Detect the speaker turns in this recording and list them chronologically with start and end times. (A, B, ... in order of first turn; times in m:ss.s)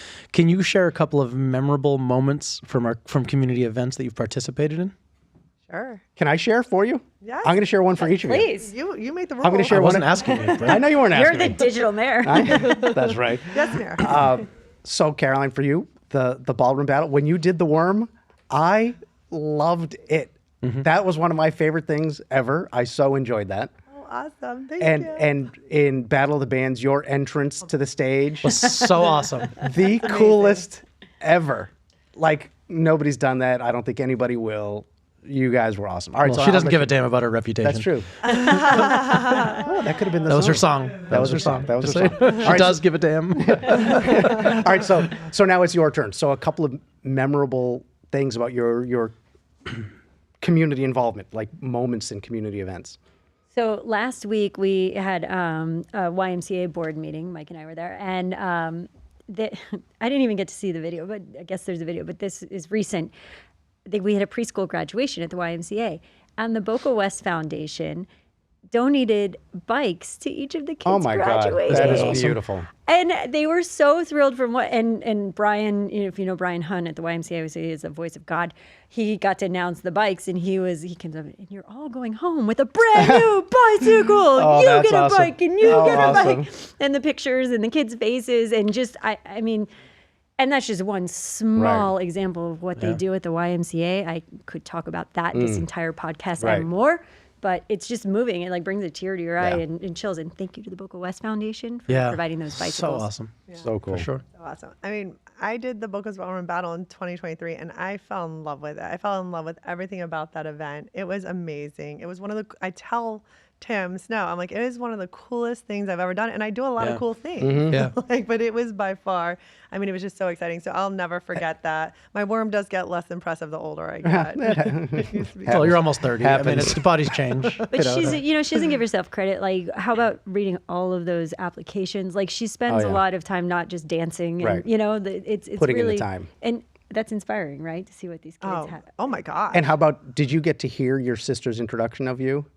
0:00.3-0:04.9 A
0:05.7-0:06.0 B
0:06.2-0:08.5 C
0:07.2-0:07.6 B
0:08.0-0:08.7 D
0:08.4-0:10.6 B
0:09.4-0:23.7 C
0:09.7-0:11.5 A
0:10.6-0:13.0 D
0:13.5-0:14.2 B
0:23.9-0:25.3 B
0:24.8-0:28.8 C
0:28.4-0:29.6 A
0:29.6-0:37.0 C
0:30.0-0:30.6 B
0:36.2-0:37.9 A
0:37.6-0:38.9 C
0:38.2-0:39.7 B
0:39.5-0:42.8 C
0:40.3-0:44.4 A
0:43.4-0:49.1 C
0:50.4-0:53.0 C
0:53.5-1:03.1 D
1:03.9-1:08.1 D
1:08.7-1:12.3 D
1:10.8-1:12.7 C
1:11.7-1:12.4 A
1:12.8-1:29.7 D
1:23.0-1:23.3 C
1:24.3-1:26.5 C
1:25.7-1:26.2 B
1:30.4-1:43.1 D
1:31.6-1:31.9 C
1:35.3-1:35.7 C
1:36.4-1:36.7 C
1:41.9-1:43.3 A
1:43.6-1:44.1 C
1:43.9-1:44.2 A
1:44.3-2:05.8 B
1:57.4-1:57.8 C
2:04.0-2:06.9 C
2:05.5-2:08.2 A
2:07.7-2:19.1 D
2:12.7-2:13.0 C
2:14.4-2:14.7 C
2:15.6-2:16.3 C
2:18.4-2:19.7 B
2:19.5-2:22.5 C